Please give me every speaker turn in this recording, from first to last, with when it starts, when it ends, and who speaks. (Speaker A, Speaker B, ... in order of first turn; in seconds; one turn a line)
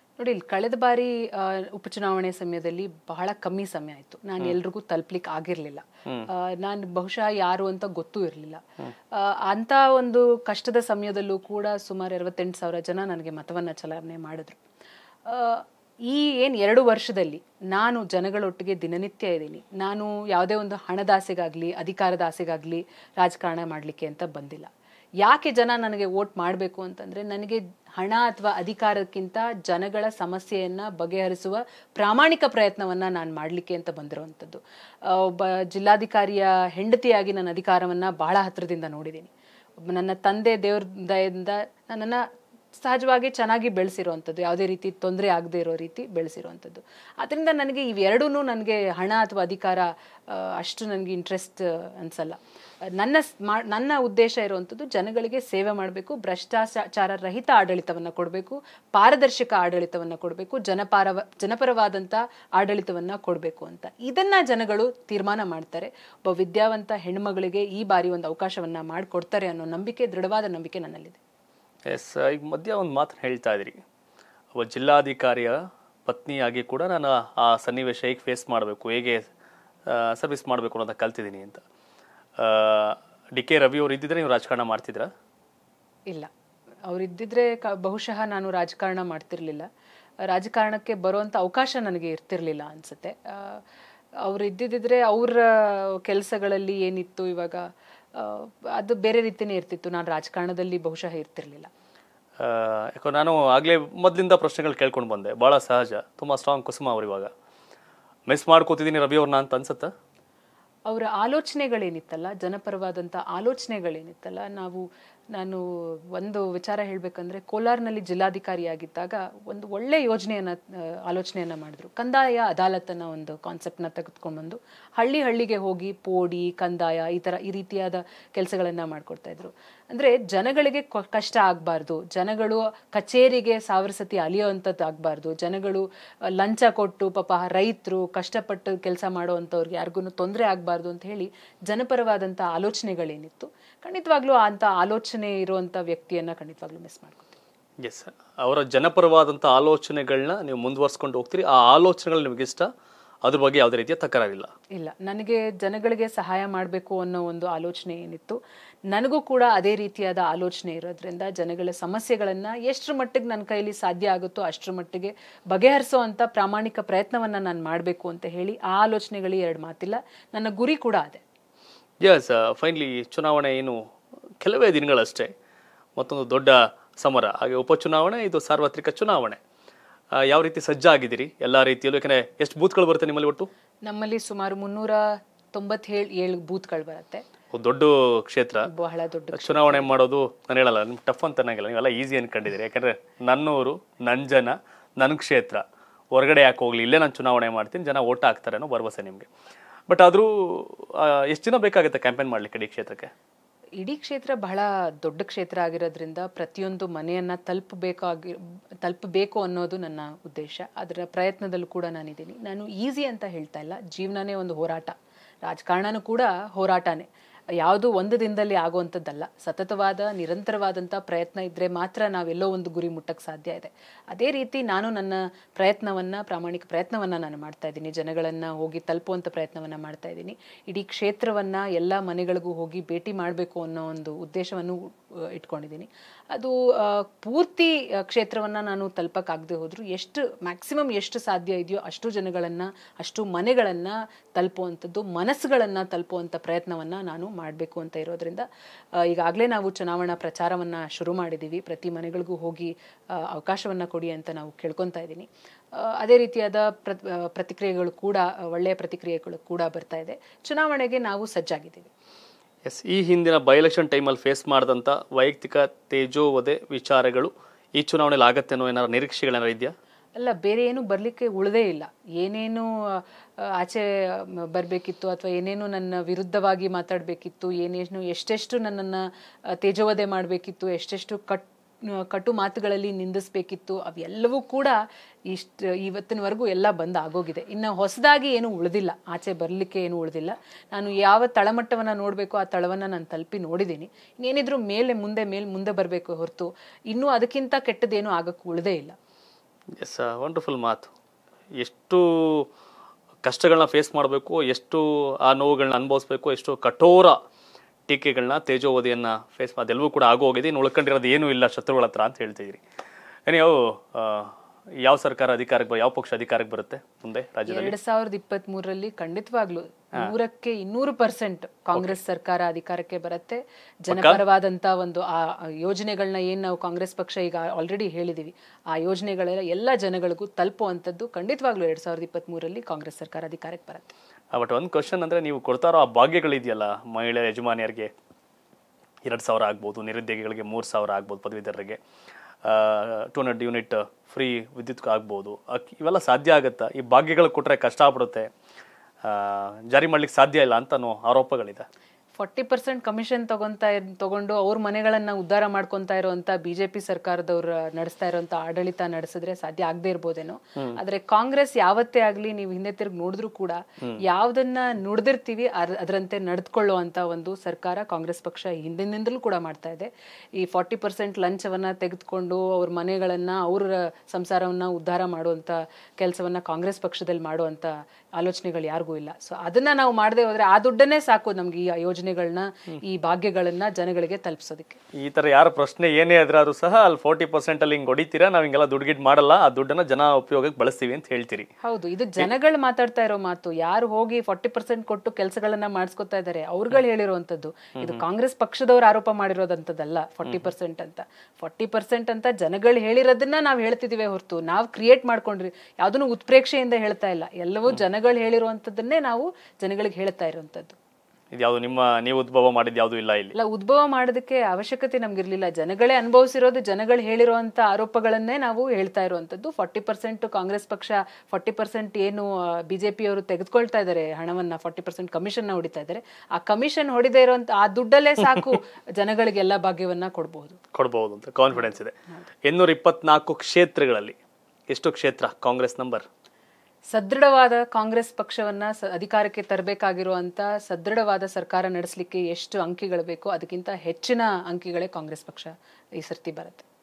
Speaker A: 0.2-14.6
Speaker A: 15.3-24.7
Speaker A: 25.2-39.3
Speaker A: 39.8-52.4
Speaker A: 53.0-71.2
Speaker B: 71.9-73.8
Speaker B: 74.5-79.2
Speaker B: 79.9-81.6
Speaker B: 82.4-85.1
Speaker A: 86.9-89.7
Speaker A: 90.3-93.6
Speaker A: 94.2-101.7
Speaker B: 102.4-107.3
Speaker B: 108.3-109.9
Speaker A: 110.9-147.4
Speaker B: 147.8-152.7
Speaker B: 153.3-154.5
Speaker A: 154.7-171.2
Speaker B: 172.0-173.8
Speaker B: 174.4-175.3
Speaker B: 176.0-179.4
Speaker B: 180.2-183.5
Speaker A: 183.9-187.2
Speaker B: 187.5-188.7
Speaker A: 188.7-189.9
Speaker B: 189.3-199.3
Speaker B: 199.9-203.1
Speaker A: 203.8-217.1
Speaker A: 217.6-248.4
Speaker A: 249.0-261.9
Speaker B: 262.7-269.7
Speaker A: 270.2-299.0
Speaker B: 299.8-300.9
Speaker B: 301.6-302.5
Speaker B: 303.2-307.2
Speaker B: 307.9-312.6
Speaker B: 313.3-317.7
Speaker A: 317.5-333.9
Speaker B: 323.9-324.2
Speaker B: 334.3-337.9
Speaker B: 339.1-341.8
Speaker B: 342.4-348.3
Speaker B: 349.0-351.6
Speaker A: 352.2-384.8
Speaker B: 384.9-391.5
Speaker A: 391.6-410.8
Speaker B: 411.3-413.4
Speaker A: 413.4-430.6
Speaker B: 430.7-431.9
Speaker A: 431.6-432.2
Speaker B: 432.4-434.2
Speaker B: 434.7-436.1
Speaker A: 436.9-446.6